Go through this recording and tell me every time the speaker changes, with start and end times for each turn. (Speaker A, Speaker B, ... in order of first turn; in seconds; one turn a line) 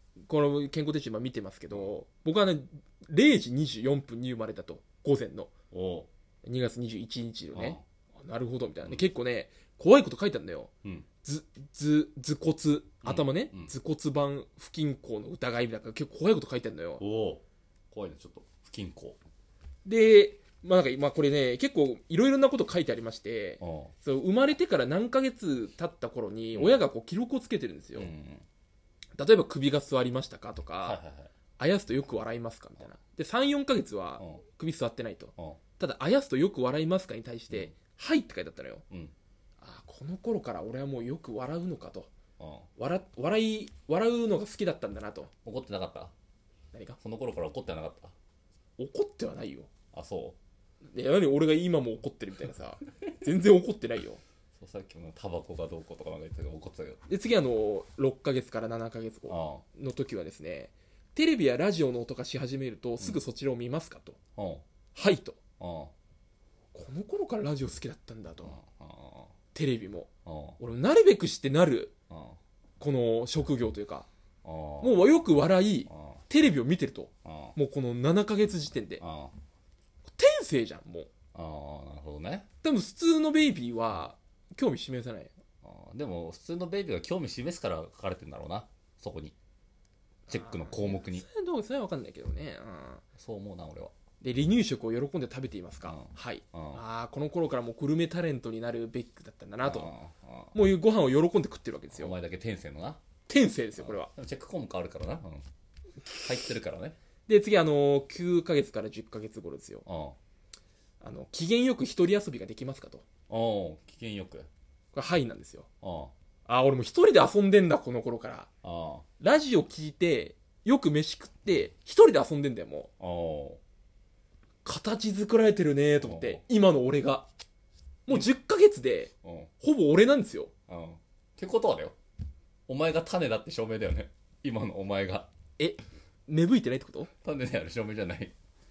Speaker A: 0.3-5.5
Speaker B: 5.7-6.1
Speaker A: 6.4-10.7
Speaker B: 7.5-7.8
Speaker A: 11.2-17.0
Speaker B: 13.0-13.7
Speaker B: 17.0-19.2
Speaker A: 19.8-28.1
Speaker B: 23.6-23.9
Speaker B: 26.5-26.8
Speaker B: 27.9-28.4
Speaker A: 29.2-31.0
Speaker B: 30.8-31.3
Speaker A: 31.6-38.8
Speaker A: 39.6-42.1
Speaker B: 42.4-42.7
Speaker A: 42.8-45.3
Speaker B: 45.4-46.1
Speaker A: 46.7-47.0
Speaker B: 47.0-48.1
Speaker A: 48.8-49.7
Speaker B: 49.9-50.4
Speaker A: 50.9-54.2
Speaker B: 54.5-57.0
Speaker A: 57.1-64.2
Speaker B: 59.3-59.6
Speaker B: 64.3-64.6
Speaker A: 64.9-65.4
Speaker B: 65.6-65.9
Speaker A: 66.7-68.6
Speaker B: 68.4-69.3
Speaker A: 69.5-70.1
Speaker B: 70.2-70.6
Speaker A: 70.6-71.9
Speaker B: 72.1-72.4
Speaker A: 72.8-74.1
Speaker B: 74.4-75.2
Speaker A: 74.8-79.0
Speaker B: 75.9-76.2
Speaker B: 77.2-77.5
Speaker B: 79.0-79.3
Speaker A: 80.1-81.1
Speaker B: 81.3-82.5
Speaker A: 82.6-85.3
Speaker B: 85.6-89.3
Speaker B: 90.3-91.2
Speaker A: 90.3-93.0
Speaker B: 93.2-93.9
Speaker A: 94.2-99.9
Speaker B: 95.8-96.8
Speaker B: 99.6-100.6
Speaker A: 100.5-102.2
Speaker B: 101.9-103.0
Speaker A: 103.3-104.1
Speaker B: 103.8-105.5
Speaker B: 106.2-107.0
Speaker A: 107.3-109.8
Speaker B: 109.8-110.2
Speaker A: 111.0-113.0
Speaker B: 113.3-114.5
Speaker A: 114.9-115.7
Speaker B: 115.8-116.1
Speaker A: 116.5-118.5
Speaker B: 118.6-119.0
Speaker A: 119.2-122.9
Speaker B: 123.0-123.6
Speaker A: 124.6-127.3
Speaker B: 126.0-126.4
Speaker A: 128.1-130.5
Speaker B: 129.2-129.5
Speaker B: 130.7-131.9
Speaker B: 132.7-135.3
Speaker A: 135.6-137.1
Speaker B: 137.2-138.3